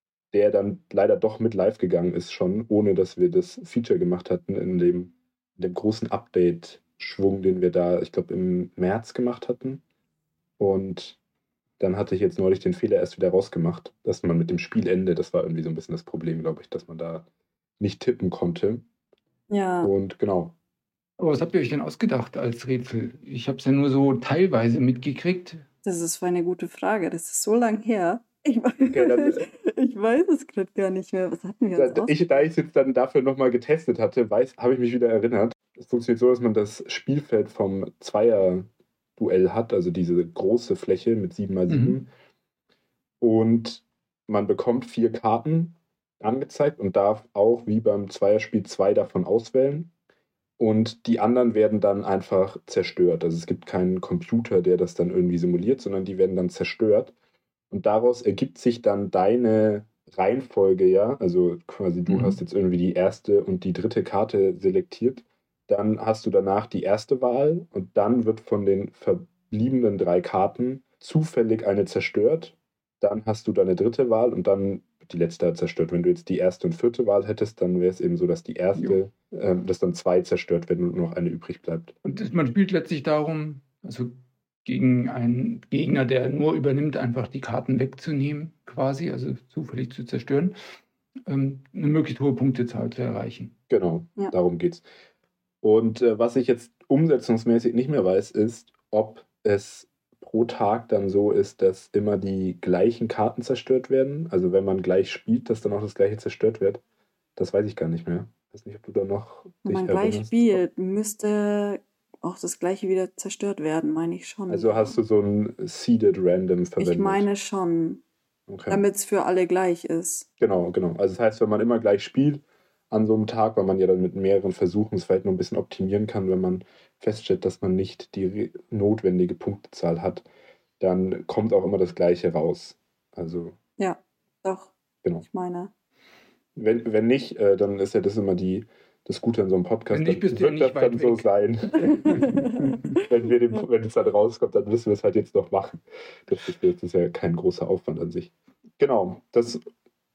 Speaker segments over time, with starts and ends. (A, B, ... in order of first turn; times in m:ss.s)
0:00.3-0:09.8 A
0:10.6-0:11.2 A
0:11.8-0:17.3 A
0:17.8-0:18.8 A
0:19.5-0:19.9 B
0:19.8-0:20.6 A
0:21.2-0:25.6 C
0:25.8-0:32.1 B
0:28.9-0:29.5 A
0:31.8-0:42.1 A
0:41.7-0:42.0 C
0:43.2-0:49.9 A
0:50.6-0:57.1 A
0:57.7-1:22.0 A
1:02.1-1:02.4 C
1:22.0-1:24.1 C
1:24.6-1:30.6 C
1:31.3-1:33.5 C
1:33.7-1:34.9 A
1:35.6-1:46.8 A
1:47.4-1:50.6 A
1:49.6-1:55.0 B
1:54.5-1:57.2 A
1:56.8-1:58.0 B
1:58.5-1:58.8 A
1:58.7-2:00.3 B
2:00.4-2:10.2 A
2:10.8-2:13.6 A
2:13.8-2:15.7 B
2:16.6-2:29.6 A
2:19.9-2:21.3 C
2:21.8-2:22.8 C
2:22.1-2:23.0 B